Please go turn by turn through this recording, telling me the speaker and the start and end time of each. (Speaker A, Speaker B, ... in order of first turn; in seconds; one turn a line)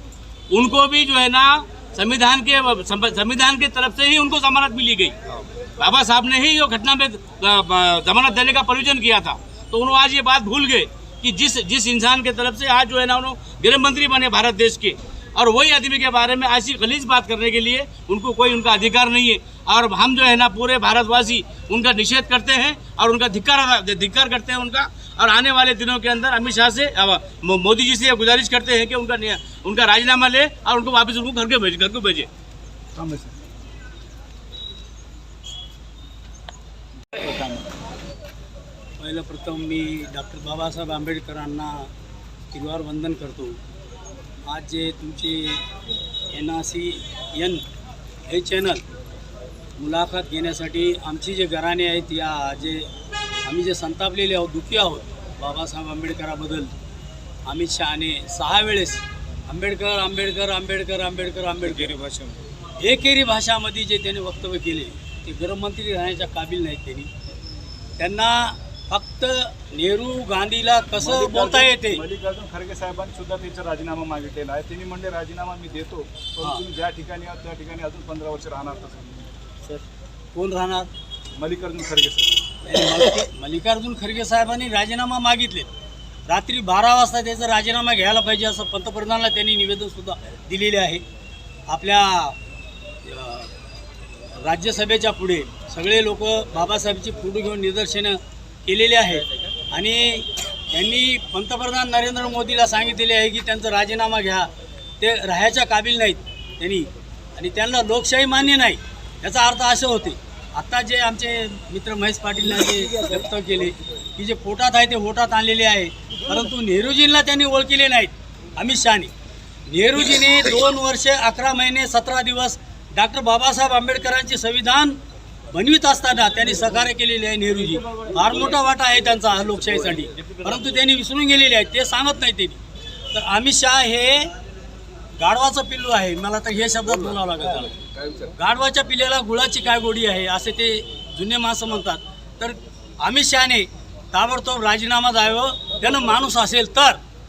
Speaker A: 0.5-32.3
Speaker B: 33.0-33.4
Speaker B: 37.1-37.7
Speaker C: 39.0-41.9
Speaker C: 42.5-43.6
Speaker C: 44.5-45.6
Speaker C: 46.3-47.6
Speaker C: 48.3-48.8
Speaker C: 49.8-52.9
Speaker C: 53.5-56.7
Speaker C: 57.5-61.9
Speaker B: 61.6-62.4
Speaker C: 62.8-67.1
Speaker C: 68.0-72.0
Speaker B: 71.0-79.3
Speaker C: 80.3-80.9
Speaker B: 81.4-82.3
Speaker C: 82.7-85.7
Speaker C: 86.3-91.0
Speaker C: 91.7-92.4
Speaker C: 93.0-93.5
Speaker C: 94.4-119.1
Speaker C: 119.7-125.0
Speaker C: 125.5-132.6
Speaker A: 130.2-130.6
Speaker C: 133.1-134.3
Speaker C: 135.2-147.0